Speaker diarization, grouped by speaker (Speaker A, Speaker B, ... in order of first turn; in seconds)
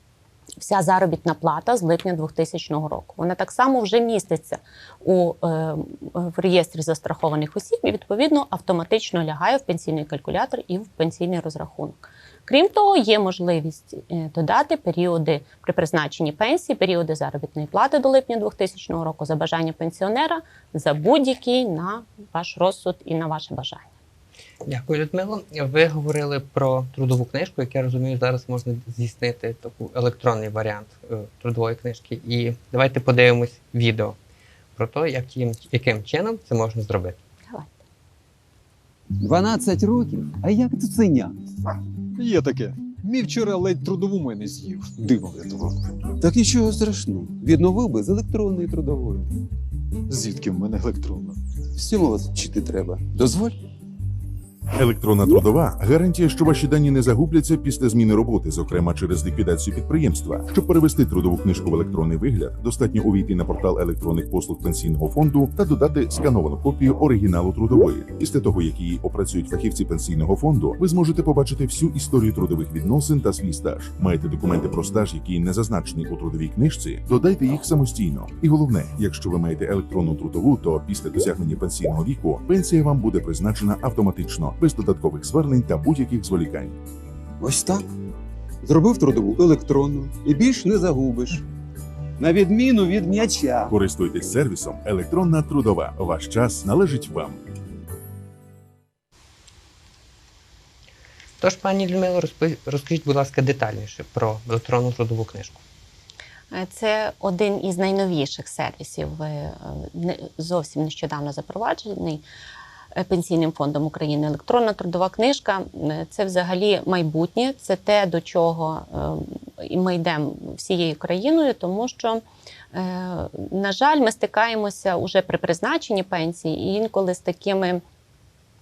Speaker A: 0.6-23.9, 106.5-112.2, 112.9-122.2, 122.7-127.8
Speaker B: 24.6-34.2, 34.8-37.2, 101.4-105.6
Speaker C: 39.2-41.7, 46.2-49.3, 51.7-53.6, 87.4-87.8, 88.6-91.4, 92.2-93.7
Speaker D: 42.2-45.8, 50.1-51.4
Speaker E: 54.8-86.8, 93.7-97.4